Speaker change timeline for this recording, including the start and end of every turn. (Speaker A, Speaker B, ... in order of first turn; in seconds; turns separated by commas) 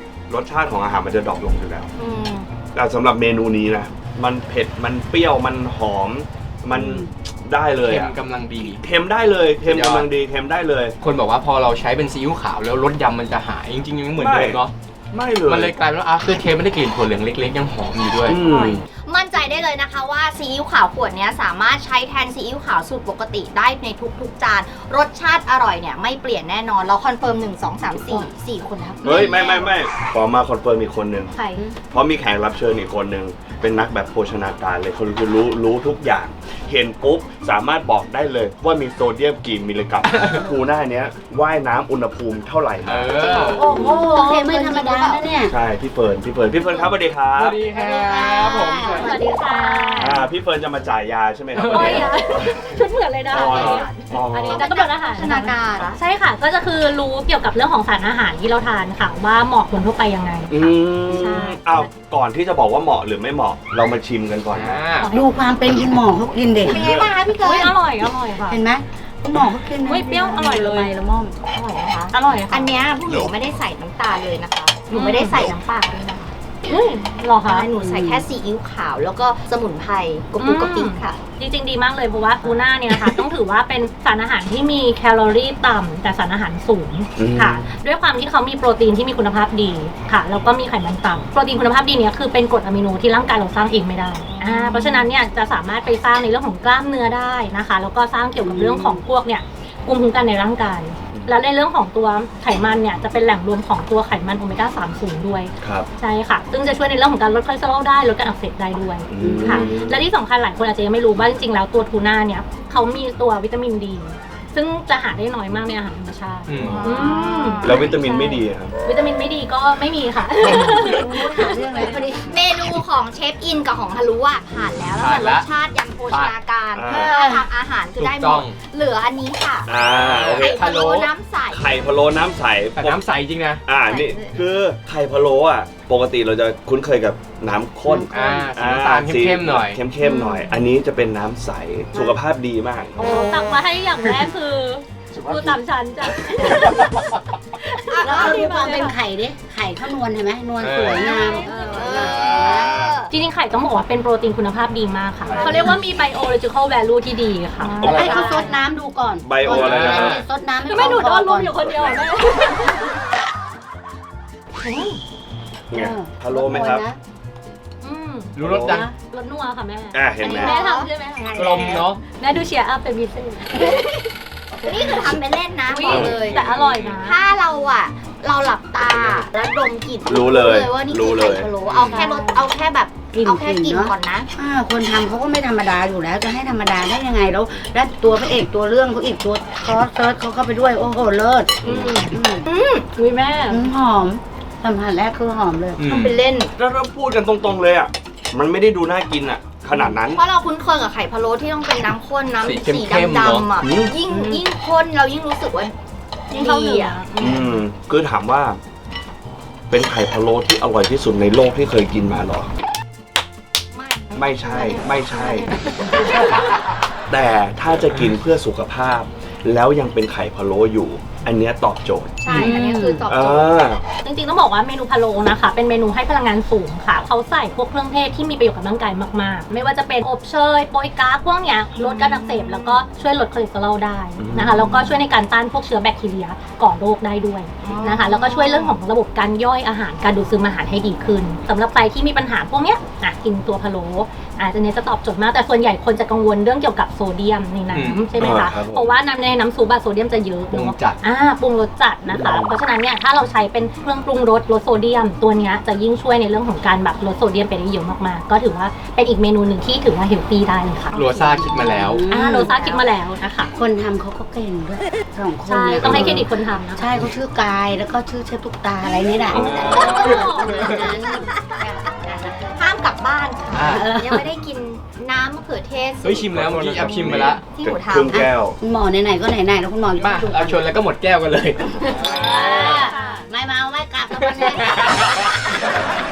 Speaker A: 0.3-1.9, Speaker B: 2.0-2.5, Speaker A: 2.7-10.9, Speaker C: 6.7-7.1, Speaker D: 7.8-8.8, Speaker D: 9.6-10.1, Speaker D: 11.0-14.7, Speaker A: 14.2-14.6, Speaker A: 15.1-15.8, Speaker D: 15.4-18.4, Speaker A: 18.2-18.8, Speaker B: 18.4-29.7, Speaker A: 29.0-31.3, Speaker A: 31.9-44.0, Speaker D: 40.1-40.4, Speaker D: 42.8-43.7, Speaker B: 43.3-45.3, Speaker C: 43.4-45.5, Speaker A: 45.5-47.6, Speaker D: 47.3-49.1, Speaker C: 47.9-50.0, Speaker E: 48.0-50.2, Speaker B: 48.5-50.1, Speaker A: 50.0-52.4, Speaker D: 51.5-52.1, Speaker E: 51.6-61.9, Speaker A: 53.3-54.7, Speaker B: 53.3-56.0, Speaker A: 60.5-64.8, Speaker D: 64.5-65.1, Speaker E: 65.0-65.2, Speaker C: 65.1-67.0, Speaker B: 66.6-67.7, Speaker E: 67.4-68.6, Speaker C: 68.5-71.4, Speaker E: 69.8-70.9, Speaker B: 71.5-76.3, Speaker E: 72.1-72.7, Speaker E: 74.9-75.5, Speaker E: 76.7-77.7, Speaker B: 77.4-81.2, Speaker C: 77.8-78.2, Speaker E: 80.4-121.9, Speaker A: 87.2-87.6, Speaker B: 94.3-95.1, Speaker A: 98.5-99.0, Speaker A: 105.6-105.9, Speaker A: 109.1-110.0, Speaker C: 109.2-109.7, Speaker D: 116.5-116.8, Speaker B: 116.6-118.0, Speaker A: 116.6-117.0, Speaker A: 117.6-118.7, Speaker C: 120.5-122.4, Speaker B: 122.3-129.7, Speaker D: 125.0-125.5, Speaker A: 126.8-127.1, Speaker C: 126.9-127.5, Speaker D: 128.0-128.6, Speaker A: 129.7-130.6, Speaker D: 129.8-131.1, Speaker B: 130.4-131.7, Speaker A: 131.5-133.0, Speaker D: 132.8-133.6, Speaker A: 133.7-143.0, Speaker B: 133.8-134.4, Speaker C: 137.9-138.4, Speaker D: 138.1-139.8, Speaker B: 140.0-140.3, Speaker C: 143.0-143.6, Speaker E: 143.0-149.0, Speaker C: 146.5-146.8, Speaker B: 147.9-148.5, Speaker C: 148.0-152.7, Speaker D: 150.6-151.1, Speaker E: 150.9-152.1, Speaker B: 151.2-153.1, Speaker A: 152.1-152.9, Speaker E: 153.1-158.5, Speaker A: 155.3-155.7, Speaker C: 155.4-155.7, Speaker B: 157.6-158.6, Speaker C: 157.8-162.0, Speaker A: 157.8-158.3, Speaker A: 159.2-160.2, Speaker D: 159.4-160.2, Speaker E: 160.7-162.9, Speaker A: 161.7-162.1, Speaker E: 164.6-165.0, Speaker A: 165.7-166.8, Speaker C: 165.7-167.0, Speaker E: 167.8-173.9, Speaker D: 168.3-168.9, Speaker A: 168.4-168.8, Speaker C: 168.6-168.9, Speaker A: 169.9-170.6, Speaker B: 170.2-170.9, Speaker C: 171.3-171.7, Speaker D: 171.3-172.0, Speaker B: 174.6-176.4, Speaker E: 175.7-177.2, Speaker A: 175.8-176.3, Speaker D: 175.9-177.0, Speaker B: 177.0-184.3, Speaker A: 178.9-179.2, Speaker A: 180.1-182.1, Speaker E: 181.9-182.2, Speaker C: 182.0-182.4, Speaker C: 183.1-192.5, Speaker E: 191.6-192.1, Speaker A: 191.6-192.0, Speaker B: 192.5-192.8, Speaker E: 192.9-193.7, Speaker C: 193.5-195.8, Speaker D: 195.8-196.2, Speaker B: 195.8-196.5, Speaker A: 196.6-200.2, Speaker B: 200.1-205.7, Speaker D: 202.4-203.5, Speaker A: 203.6-203.9, Speaker E: 204.1-204.4, Speaker B: 206.3-207.0, Speaker E: 206.3-207.6, Speaker A: 207.2-208.6, Speaker A: 209.7-212.5, Speaker B: 213.7-215.4, Speaker A: 214.1-215.5, Speaker B: 216.0-216.3, Speaker A: 217.1-222.5, Speaker B: 222.2-223.6, Speaker C: 222.3-223.1, Speaker A: 223.1-223.8, Speaker E: 224.0-260.9, Speaker B: 231.8-232.6, Speaker A: 234.2-235.0, Speaker B: 237.6-238.8, Speaker D: 247.7-248.1, Speaker A: 248.2-248.9, Speaker D: 250.5-251.0, Speaker A: 252.1-252.5, Speaker C: 260.9-262.5, Speaker D: 260.9-262.0, Speaker E: 262.1-263.5, Speaker B: 262.2-262.8, Speaker C: 263.5-272.7, Speaker E: 265.4-266.9, Speaker A: 265.8-266.2, Speaker A: 269.3-269.8, Speaker D: 269.3-270.9, Speaker B: 269.5-271.7, Speaker E: 269.6-270.8, Speaker B: 272.5-278.3, Speaker D: 273.5-274.0, Speaker C: 273.6-274.2, Speaker D: 276.0-277.4, Speaker A: 276.3-278.6, Speaker C: 278.6-280.7, Speaker D: 280.0-282.9, Speaker E: 282.0-283.2, Speaker C: 282.1-285.3, Speaker B: 282.6-282.9, Speaker D: 284.2-285.3